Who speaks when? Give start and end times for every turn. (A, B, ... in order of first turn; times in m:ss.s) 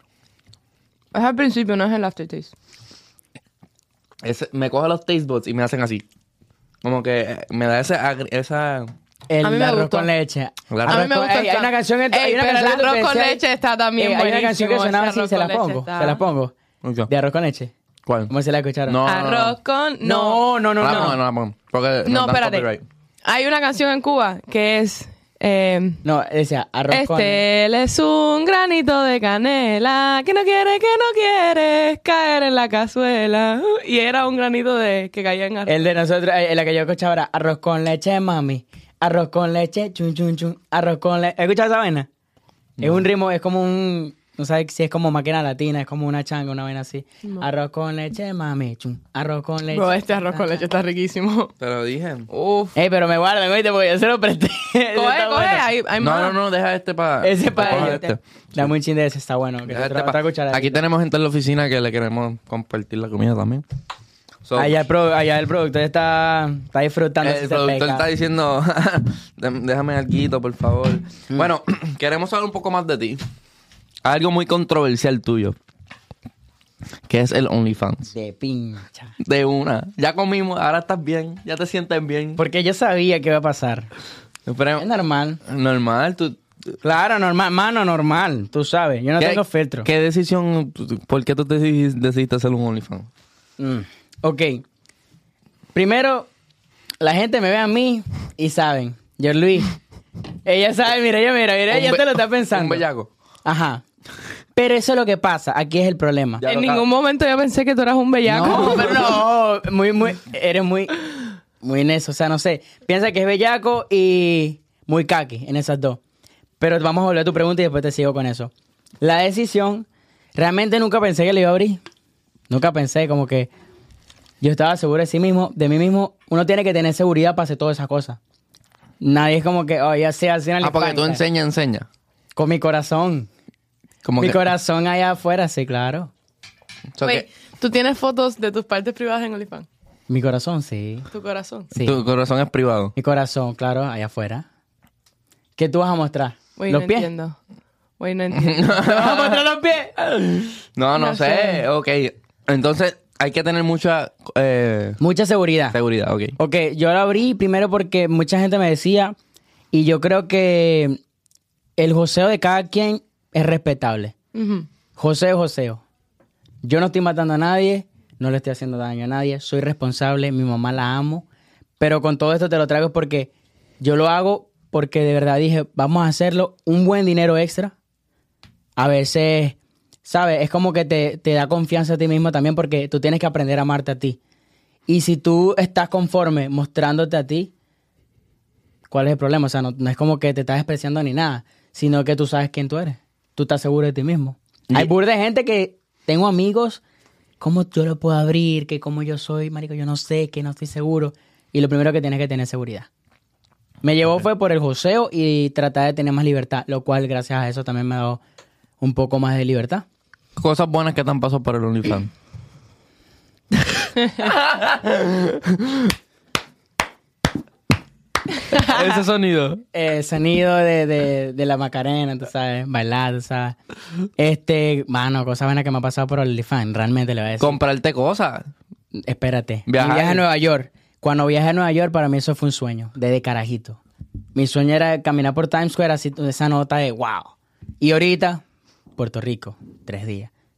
0:01.1-0:02.5 A
0:04.2-0:06.0 B
0:06.8-0:08.9 B
0:09.3-0:13.4 C
0:09.4-0:10.1 A
0:10.7-0:11.0 B
0:10.9-0:16.2 A
0:14.0-0:16.5 C
0:16.8-0:17.1 B
0:17.1-0:17.7 C
0:18.1-0:18.3 B
0:18.3-0:19.0 C
0:18.9-0:19.6 B
0:19.0-0:21.1 A
0:20.0-0:21.2 C
0:20.8-0:22.8 B
0:22.1-0:22.7 A
0:23.2-0:26.0 A
0:26.0-0:27.4 C
0:26.9-0:35.9 A
0:35.7-0:42.1 C
0:42.8-0:50.6 C
0:49.7-0:51.5 A
0:51.6-0:52.3 B
0:52.3-0:52.8 A
0:52.8-0:55.7 C
0:54.9-0:56.4 A
0:56.0-0:58.7 B
0:57.2-1:00.8 C
0:57.6-0:58.1 A
0:59.7-1:03.6 B
1:04.4-1:04.8 B
1:04.6-1:08.1 C
1:07.2-1:13.2 B
1:14.0-1:15.6 B
1:17.1-1:18.1 B
1:18.1-1:19.1 C
1:19.2-1:22.4 B
1:22.4-1:23.9 C
1:24.5-1:24.9 B
1:24.8-1:25.4 C
1:25.5-1:26.4 B
1:26.8-1:29.9 C
1:29.2-1:33.1 B
1:33.6-1:34.6 C
1:35.7-1:36.3 C
1:37.0-1:39.7 C
1:40.4-1:42.8 C
1:41.7-1:43.1 B
1:43.4-1:43.8 C
1:44.6-1:46.4 C
1:46.4-1:46.9 B
1:46.4-1:49.1 A
1:48.3-1:56.0 C
1:56.6-2:01.8 C
2:02.5-2:03.5 C
2:04.4-2:08.2 C
2:09.0-2:11.2 C
2:10.6-2:11.9 B
2:12.4-2:13.3 C
2:14.0-2:14.4 B
2:14.2-2:16.1 C
2:17.0-2:17.2 B
2:17.0-2:19.7 A
2:20.1-2:21.1 C
2:21.1-2:21.7 A
2:21.7-2:22.0 C
2:21.8-2:23.0 B
2:23.0-2:24.5 C
2:25.6-2:27.1 C
2:26.6-2:27.4 A
2:28.0-2:29.0 A
2:28.3-2:29.4 B
2:28.8-2:30.0 C
2:30.2-2:35.0 B
2:31.0-2:31.6 A
2:35.0-2:35.8 C
2:35.7-2:36.4 B
2:36.4-2:39.2 C
2:39.7-2:41.0 C
2:41.8-2:44.2 C
2:44.3-2:44.7 A
2:45.0-2:45.8 C
2:46.6-2:51.3 C
2:51.8-2:57.7 C
2:58.8-3:04.2 C
3:04.9-3:07.5 C
3:08.9-3:16.8 C
3:17.4-3:22.9 C
3:23.8-3:28.2 C
3:28.8-3:29.8 C
3:30.4-3:32.1 B
3:33.8-3:35.9 B
3:38.5-3:39.6 B
3:39.7-3:43.6 C
3:44.2-3:47.6 C
3:47.4-3:48.5 B
3:48.9-3:53.8 C
3:49.7-3:50.2 B
3:54.4-3:58.4 C
3:59.0-4:00.3 C